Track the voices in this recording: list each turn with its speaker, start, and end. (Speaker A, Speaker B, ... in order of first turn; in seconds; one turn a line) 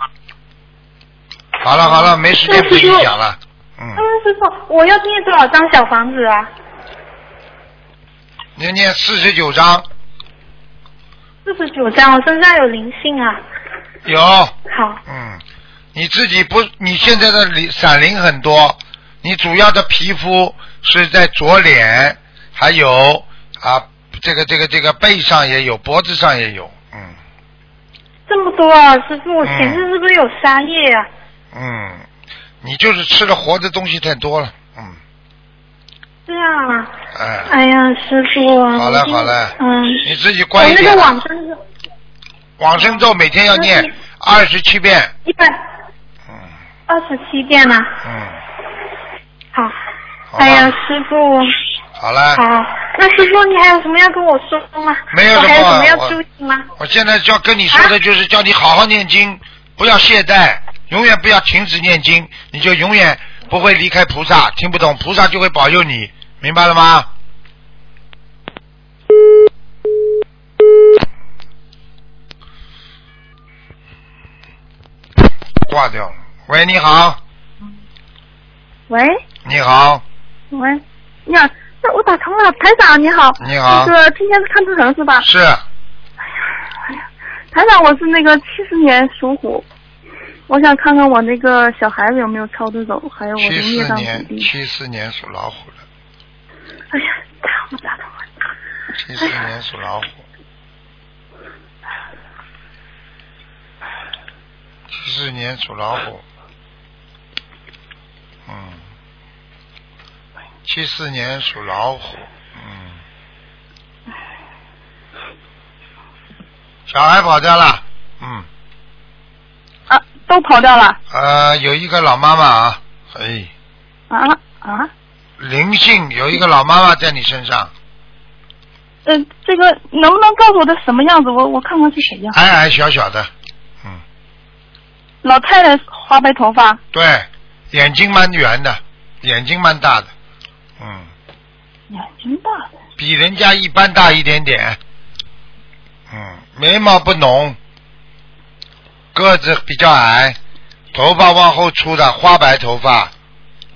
Speaker A: 1.6-4.0
Speaker B: 1.8-3.1
Speaker B: 4.0-6.5
Speaker A: 8.6-9.8
Speaker B: 11.4-13.4
Speaker A: 14.1-15.4
Speaker B: 14.7-15.0
Speaker A: 15.9-27.2
Speaker B: 28.3-31.1
Speaker A: 29.4-29.9
Speaker A: 31.5-32.1
Speaker A: 32.6-35.0
Speaker B: 36.3-36.9
Speaker A: 37.1-37.5
Speaker B: 37.5-41.6
Speaker A: 38.7-41.2
Speaker A: 42.6-45.1
Speaker B: 43.5-43.9
Speaker B: 45.3-45.6
Speaker B: 46.9-48.0
Speaker A: 48.0-48.4
Speaker A: 50.3-50.8
Speaker B: 50.4-51.5
Speaker A: 52.0-52.4
Speaker B: 52.3-56.7
Speaker A: 55.1-56.2
Speaker A: 56.8-67.1
Speaker A: 75.6-77.2
Speaker C: 78.9-79.2
Speaker A: 79.5-80.0
Speaker C: 80.5-85.3
Speaker A: 83.4-83.9
Speaker A: 85.2-85.6
Speaker C: 87.5-89.7
Speaker C: 90.5-94.5
Speaker A: 93.4-95.8
Speaker C: 97.6-98.0
Speaker A: 99.0-100.2
Speaker A: 104.9-106.2
Speaker A: 108.5-108.8
Speaker A: 110.7-113.0
Speaker A: 116.9-118.5
Speaker C: 119.9-121.0
Speaker A: 121.1-123.5
Speaker C: 124.1-124.9
Speaker A: 125.4-127.7
Speaker C: 129.1-132.4
Speaker A: 132.3-133.3
Speaker C: 135.2-136.8
Speaker A: 136.9-140.1
Speaker A: 140.8-141.1
Speaker C: 141.9-142.8
Speaker A: 143.0-144.8
Speaker A: 146.1-147.6
Speaker A: 149.1-150.4
Speaker A: 150.9-153.1